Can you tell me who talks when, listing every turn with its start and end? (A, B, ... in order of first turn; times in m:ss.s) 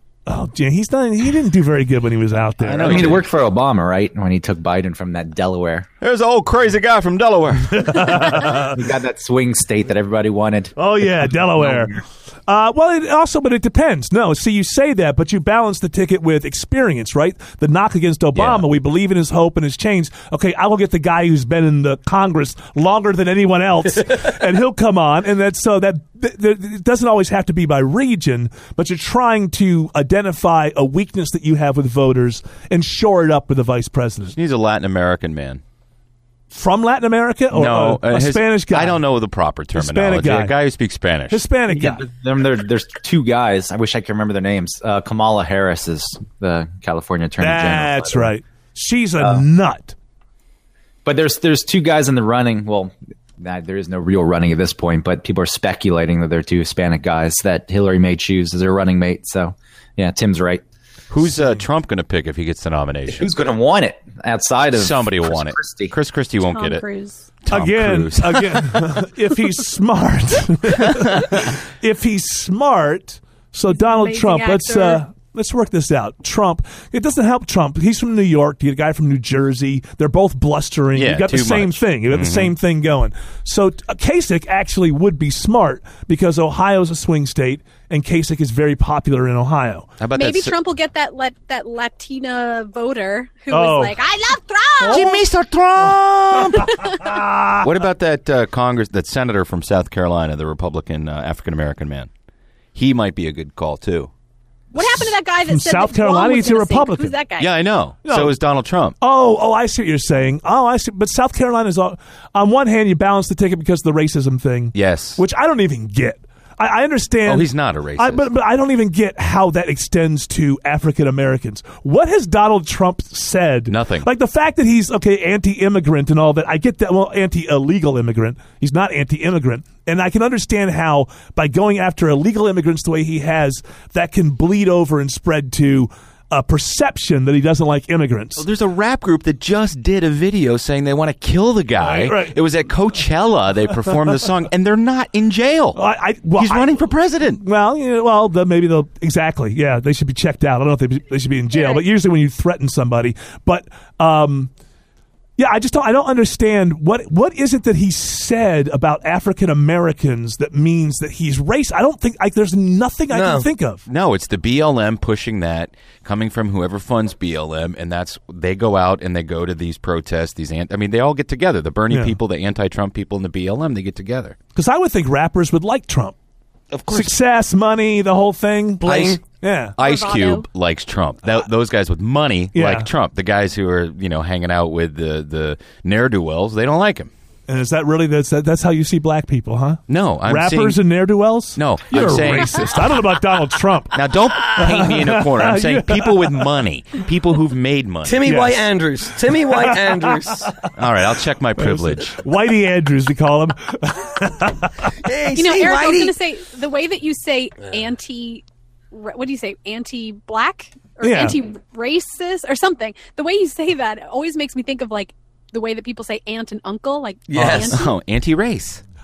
0:00.3-0:03.2 A
0:02.6-0:03.2 B
0:02.8-0:05.9 C
0:06.0-0:08.5 B
0:07.8-0:08.8 A
0:08.4-0:12.0 C
0:10.8-0:11.9 A
0:12.5-0:34.4 A
0:18.4-0:18.6 B
0:34.3-0:35.6 B
0:36.5-0:39.0 A
0:37.5-0:41.4 B
0:39.7-0:40.6 A
0:41.3-0:42.0 A
0:41.7-0:48.3 C
0:47.4-0:49.9 A
0:51.0-1:00.6 C
1:01.1-1:03.3 B
1:03.1-1:05.9 C
1:04.8-1:06.8 B
1:06.5-1:07.3 D
1:07.4-1:08.9 B
1:07.5-1:29.9 A
1:13.7-1:15.0 D
1:20.9-1:22.5 B
1:30.0-1:30.6 B
1:30.1-1:35.1 D
1:33.5-1:34.0 A
1:34.8-1:35.1 A
1:34.9-1:36.7 B
1:37.0-1:37.6 A
1:37.6-1:42.1 B
1:42.7-1:44.1 B
1:44.7-1:47.2 A
1:44.7-1:47.5 D
1:47.4-1:49.0 B
1:48.0-1:48.4 A
1:49.0-2:18.4 A
1:54.7-1:55.2 B
1:57.2-1:58.2 B
2:03.7-2:04.1 B
2:18.4-2:25.8 B
2:21.8-2:22.4 A
2:25.7-2:34.5 A
2:26.4-2:27.4 B
2:31.5-2:31.8 D
2:35.4-2:43.8 A
2:43.1-2:43.4 E
2:43.9-2:54.4 B
2:51.9-2:52.2 A
2:54.5-2:56.1 A
2:56.7-2:57.1 B
2:56.9-2:59.8 A
2:58.8-2:59.2 E
2:58.9-2:59.1 B
2:59.8-3:07.1 B
2:59.8-3:00.4 D
3:02.5-3:02.9 A
3:07.5-3:16.4 A
3:09.9-3:10.8 B
3:11.6-3:13.0 B
3:13.9-3:18.3 B
3:18.0-3:20.5 E
3:18.2-3:20.6 A
3:20.7-3:22.2 B
3:21.6-3:24.9 A
3:25.0-3:26.1 E
3:25.3-3:37.9 D
3:31.0-3:31.4 A
3:37.3-3:37.8 E
3:37.4-3:37.6 A
3:37.7-3:38.8 B